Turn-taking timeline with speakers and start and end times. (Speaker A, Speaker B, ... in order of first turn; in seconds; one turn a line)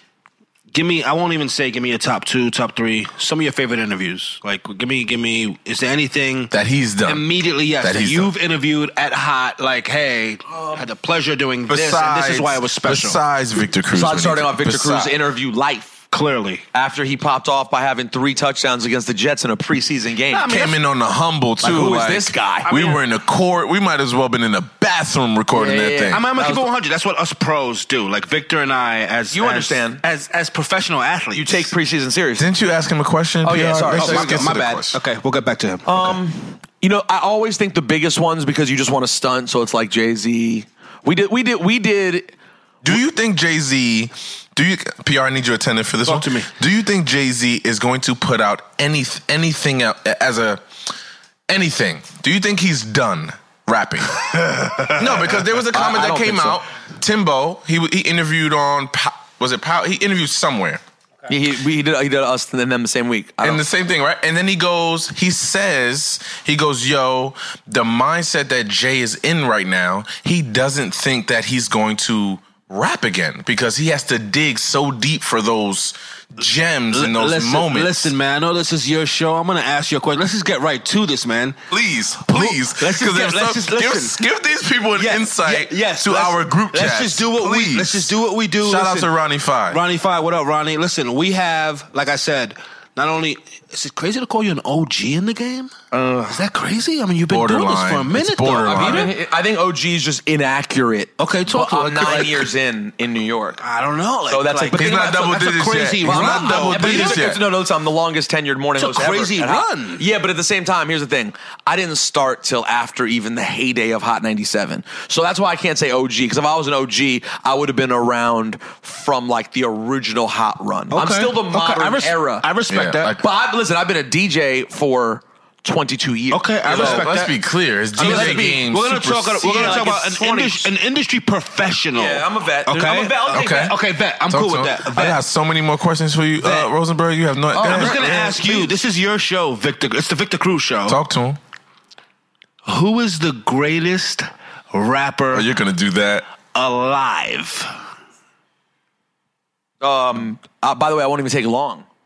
Speaker A: 0.7-6.5
Speaker B: 6.5-7.2
Speaker A: 7.0-13.2
Speaker B: 7.8-8.3
Speaker B: 11.7-15.1
Speaker C: 13.9-16.0
Speaker A: 16.1-16.6
Speaker C: 16.7-20.5
Speaker A: 20.3-20.8
Speaker B: 20.5-26.3
Speaker C: 21.6-22.7
Speaker A: 22.7-23.0
Speaker C: 25.5-26.7
Speaker A: 26.1-31.7
Speaker C: 29.3-30.0
Speaker C: 31.3-32.5
Speaker B: 32.4-35.0
Speaker C: 33.4-34.5
Speaker A: 33.9-36.2
Speaker C: 35.8-42.3
Speaker B: 42.8-50.6
Speaker A: 46.0-46.5
Speaker B: 51.5-54.2
Speaker A: 54.2-55.4
Speaker B: 54.9-60.8
Speaker C: 55.7-56.6
Speaker C: 61.3-63.6
Speaker B: 63.4-78.1
Speaker A: 76.9-81.6
Speaker B: 81.7-89.8
Speaker A: 82.2-84.2
Speaker C: 85.0-85.3
Speaker A: 85.4-89.1
Speaker A: 89.7-99.1
Speaker B: 97.3-99.1
Speaker C: 98.6-103.6
Speaker A: 101.2-102.5
Speaker A: 103.6-107.4
Speaker C: 104.3-105.3
Speaker B: 104.7-107.4
Speaker C: 106.0-122.5
Speaker A: 108.8-110.0
Speaker A: 120.9-123.2
Speaker B: 122.7-123.2
Speaker C: 123.1-127.1
Speaker A: 126.3-127.4
Speaker B: 126.6-129.8
Speaker C: 128.0-128.7
Speaker A: 128.0-135.2
Speaker C: 129.4-130.7
Speaker C: 131.9-133.7
Speaker B: 133.3-138.2
Speaker A: 136.4-136.7
Speaker C: 137.5-138.7
Speaker A: 137.6-141.0
Speaker B: 140.9-141.4
Speaker A: 142.7-145.4
Speaker B: 145.3-146.3
Speaker A: 146.5-147.7
Speaker C: 149.8-151.8